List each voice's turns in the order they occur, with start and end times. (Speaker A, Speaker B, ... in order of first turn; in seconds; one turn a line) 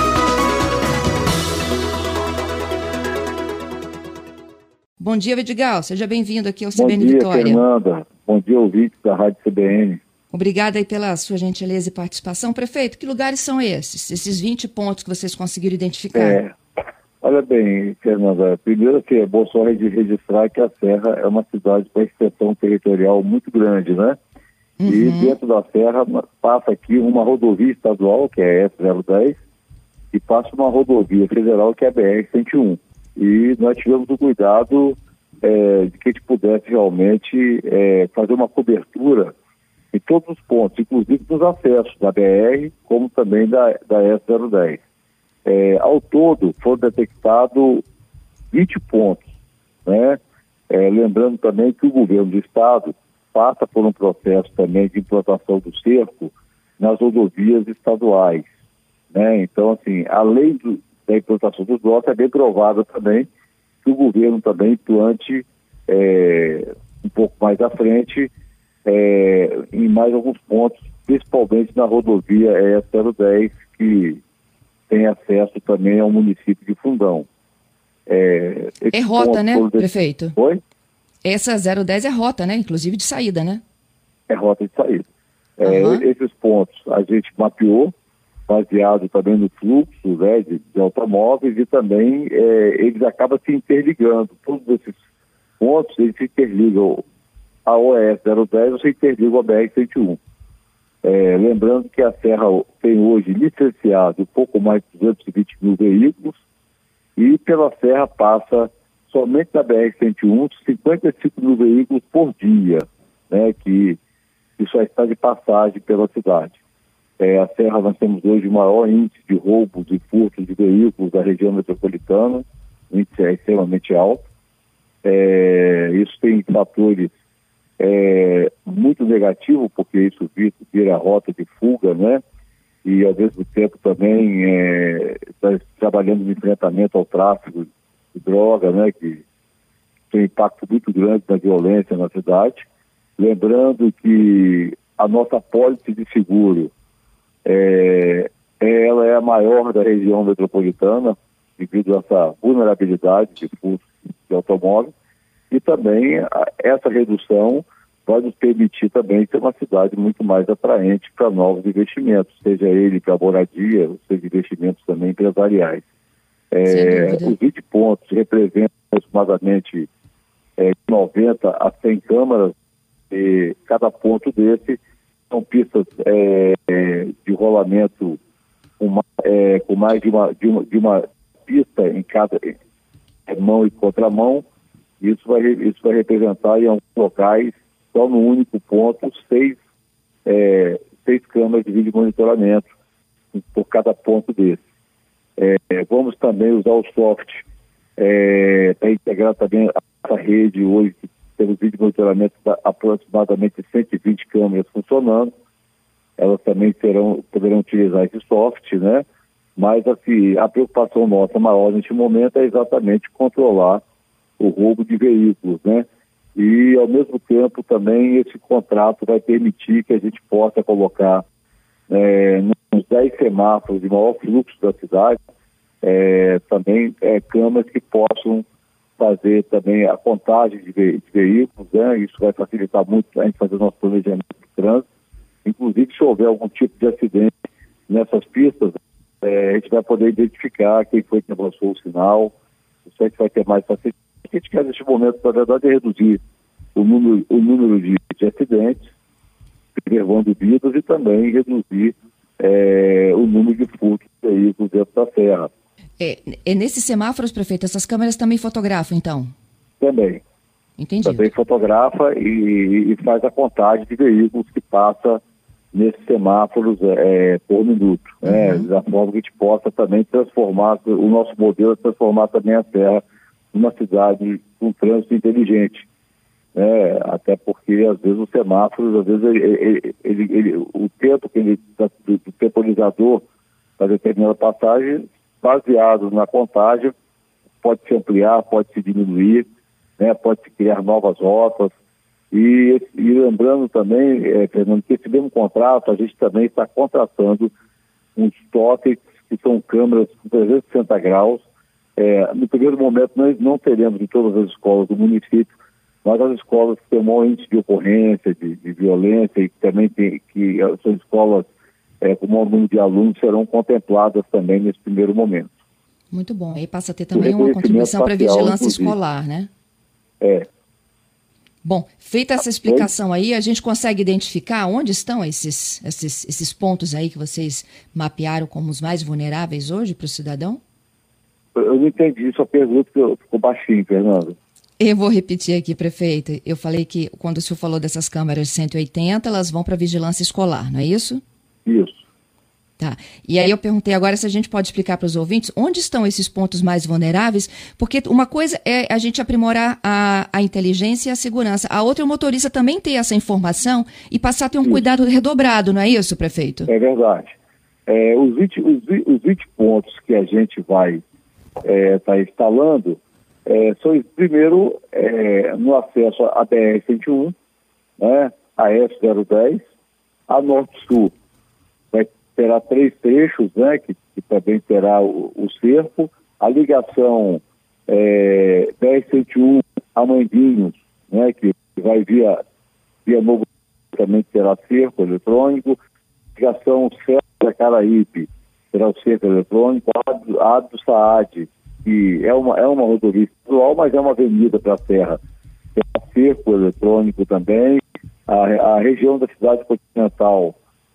Speaker A: 5.0-7.6
Speaker B: 6.8-10.0
Speaker A: 10.3-16.4
Speaker B: 16.1-16.6
Speaker B: 17.2-24.2
Speaker A: 24.8-25.4
Speaker B: 24.9-29.4
Speaker B: 30.1-39.3
Speaker B: 39.9-44.8
Speaker B: 45.5-47.9
Speaker B: 48.5-49.3
Speaker B: 49.9-58.5
Speaker B: 59.1-63.3
Speaker B: 63.8-68.3
Speaker B: 68.8-74.2
Speaker B: 74.9-77.3
Speaker B: 78.1-80.6
Speaker A: 78.9-80.3
Speaker A: 81.2-83.6
Speaker B: 84.3-85.1
Speaker B: 85.6-87.9
Speaker A: 85.6-86.0
Speaker B: 88.5-95.0
Speaker B: 95.6-97.0
Speaker B: 97.7-100.2
Speaker B: 101.0-106.4
Speaker B: 107.2-114.0
Speaker B: 114.6-116.6
Speaker B: 117.2-124.2
Speaker B: 125.0-127.1
Speaker B: 127.8-132.2
Speaker B: 132.8-139.2
Speaker B: 140.1-142.7
Speaker B: 143.2-146.7
Speaker B: 147.4-154.9
Speaker B: 155.5-165.8
Speaker B: 166.5-169.9
Speaker A: 166.7-167.4
Speaker B: 170.6-172.5
Speaker B: 173.1-178.2
Speaker B: 178.8-182.6
Speaker B: 183.3-184.4
Speaker B: 185.0-189.6
Speaker B: 190.2-192.7
Speaker B: 193.3-194.6
Speaker B: 195.4-197.4
Speaker B: 198.0-205.3
Speaker B: 206.2-209.1
Speaker B: 209.6-213.8
Speaker B: 214.4-221.2
Speaker B: 221.9-225.2
Speaker B: 225.8-228.4
Speaker B: 229.0-234.9
Speaker B: 235.4-242.3
Speaker B: 242.9-246.2
Speaker B: 246.8-248.9
Speaker B: 249.8-255.5
Speaker A: 256.0-259.3
Speaker B: 259.8-260.2
Speaker A: 260.8-261.3
Speaker B: 261.1-265.2
Speaker B: 265.7-275.9
Speaker A: 268.3-268.7
Speaker B: 276.6-283.2
Speaker B: 283.8-286.9
Speaker B: 287.6-289.5
Speaker B: 290.0-291.7
Speaker B: 292.3-297.5
Speaker B: 298.2-301.4
Speaker B: 302.0-305.5
Speaker B: 306.0-311.5
Speaker B: 312.0-315.5
Speaker A: 316.1-319.5
Speaker B: 317.1-318.9
Speaker B: 320.2-320.5
Speaker A: 321.6-330.6
Speaker B: 331.6-334.4
Speaker A: 334.8-341.2
Speaker B: 341.6-342.0
Speaker A: 342.8-356.7
Speaker B: 356.7-357.4
Speaker B: 357.9-361.0
Speaker B: 361.6-367.3
Speaker B: 368.0-369.6
Speaker B: 370.3-371.1
Speaker B: 371.9-382.4
Speaker B: 383.1-385.8
Speaker B: 386.4-395.2
Speaker B: 395.8-400.6